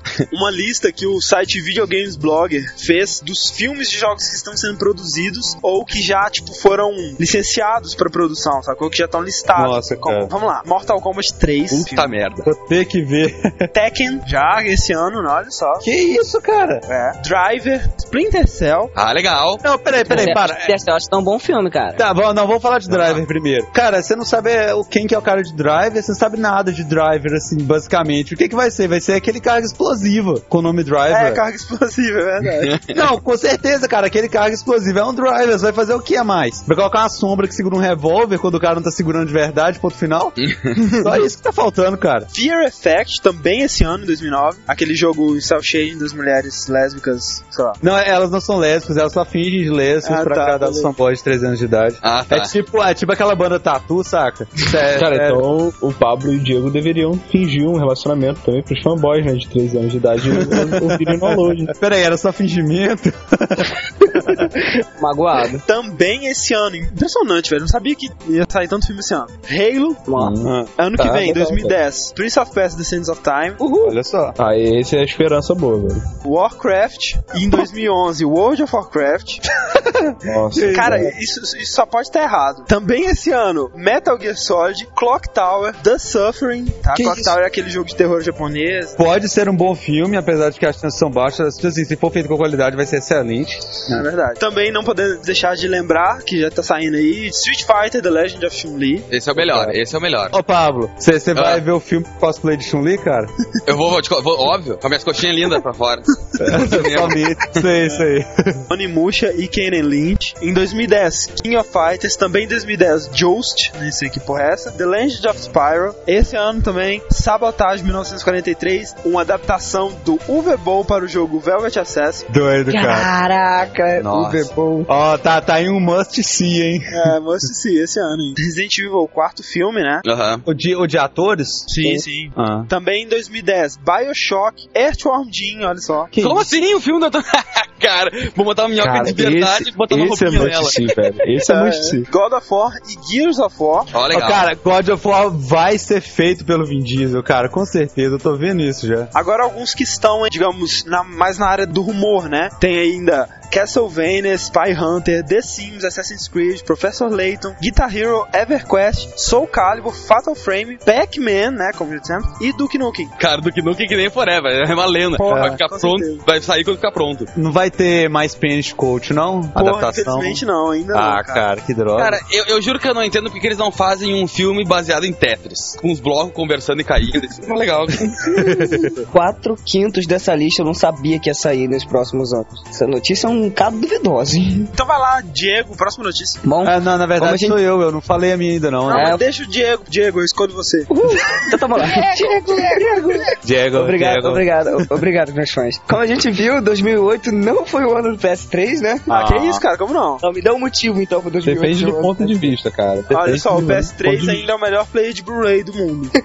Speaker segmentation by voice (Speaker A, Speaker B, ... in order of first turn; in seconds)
Speaker A: 0.3-12.1, 13.7-15.8, 16.9-18.9, 31.1-32.8, 42.3-47.8, 50.0-50.9, 65.6-70.1, 70.7-73.6, 76.2-79.4, 80.7-89.0, 93.9-99.1, 108.7-122.3, 126.9-130.1, 131.7-136.1, 141.4-143.9, 149.1-163.1, 165.2-166.2, 169.6-171.5, 184.7-186.4, 188.9-193.3, 199.1-200.2, 203.1-206.1
Speaker B: 9.5-10.3, 12.4-13.7, 15.8-16.9, 19.6-20.8, 22.0-31.4, 32.9-42.3, 47.8-55.4, 60.3-64.5, 70.4-70.7, 73.8-74.4, 79.7-81.1, 86.9-87.4, 89.0-94.0, 99.3-99.8, 100.3-103.3, 106.4-108.7, 122.3-123.1, 124.0-127.1, 130.4-132.7, 136.1-136.5, 144.1-149.1, 165.3-165.6, 167.3-170.4, 170.9-172.2, 178.3-178.9, 186.6-189.2, 193.4-194.5, 199.1-199.6
Speaker C: 11.7-12.5, 18.9-19.6, 22.9-23.2, 32.6-32.9, 40.4-40.8, 52.0-52.5, 99.1-100.3, 101.3-101.6, 103.7-107.7, 130.0-130.4, 136.2-141.0, 143.9-144.5, 163.2-167.3, 171.9-178.3
Speaker D: 20.0-22.0, 65.0-65.6, 70.1-70.4, 73.6-73.9, 122.7-124.9, 178.4-184.7, 186.4-187.6, 188.9-189.2, 190.9-199.1, 200.2-202.6
Speaker E: 54.9-61.7, 64.2-64.8, 70.1-71.8, 73.9-76.1, 80.2-81.1, 138.8-142.1, 201.4-204.5